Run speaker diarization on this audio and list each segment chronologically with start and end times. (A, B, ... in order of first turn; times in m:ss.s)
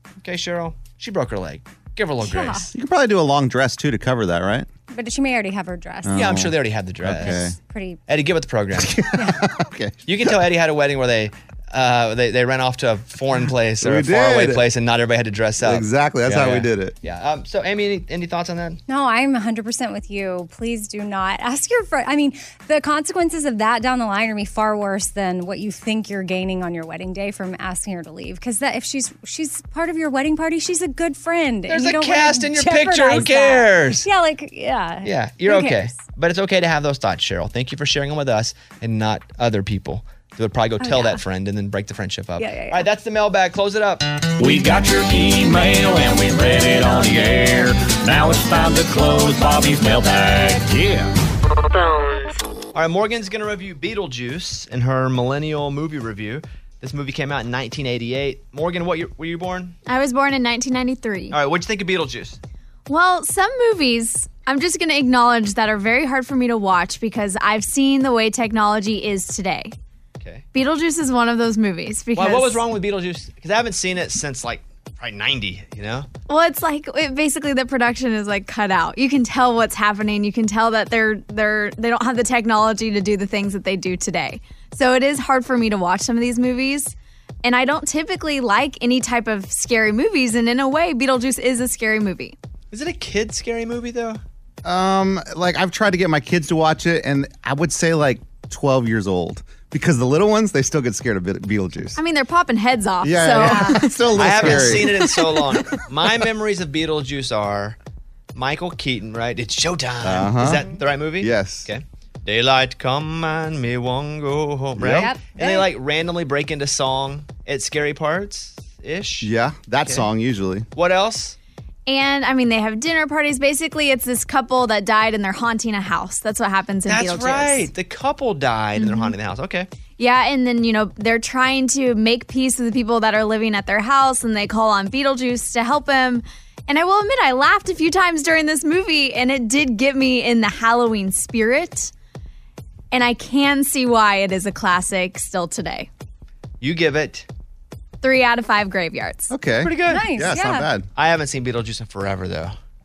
0:00.2-0:02.7 A
0:02.2-0:02.7 B
0:02.7-0:04.7 C
0:04.9-0:06.5 B
0:06.0-0:07.6 C
0:06.1-0:07.5 A
0:07.2-0:08.0 B
0:08.1-0:09.0 A
0:08.8-0:10.3 C
0:09.2-0:09.5 B
0:10.0-0:18.8 A
0:13.8-0:14.6 C
0:15.6-0:16.9 C
0:18.9-0:36.0 B
0:31.7-0:34.1 A
0:35.0-0:44.0 A
0:40.8-0:41.2 B
0:42.4-0:42.8 B
0:44.4-0:51.1 D
0:52.7-0:59.8 A
0:59.9-1:01.4 E
1:01.3-1:02.4 A
1:02.9-1:09.7 E
1:10.5-1:12.6 E
1:12.1-1:16.1 A
1:16.3-1:32.4 E
1:32.7-1:34.2 A
1:34.6-1:42.0 C
1:42.0-1:43.9 E
1:43.0-1:45.1 C
1:43.4-1:43.8 B
1:44.1-1:47.8 A
1:48.3-2:00.0 A
1:50.0-1:50.7 C
1:51.2-1:51.7 C
1:54.8-1:55.1 C
1:54.9-1:55.7 B
1:59.2-2:00.7 C
2:00.7-2:01.4 A
2:01.9-2:07.7 E
2:06.9-2:09.7 A
2:08.8-2:09.1 E
2:10.0-2:21.9 E
2:22.9-2:25.9 E
2:26.6-2:27.2 A
2:28.0-2:29.3 E
2:29.3-2:30.9 C
2:29.6-2:30.0 A
2:29.9-2:30.7 B
2:30.9-2:32.5 A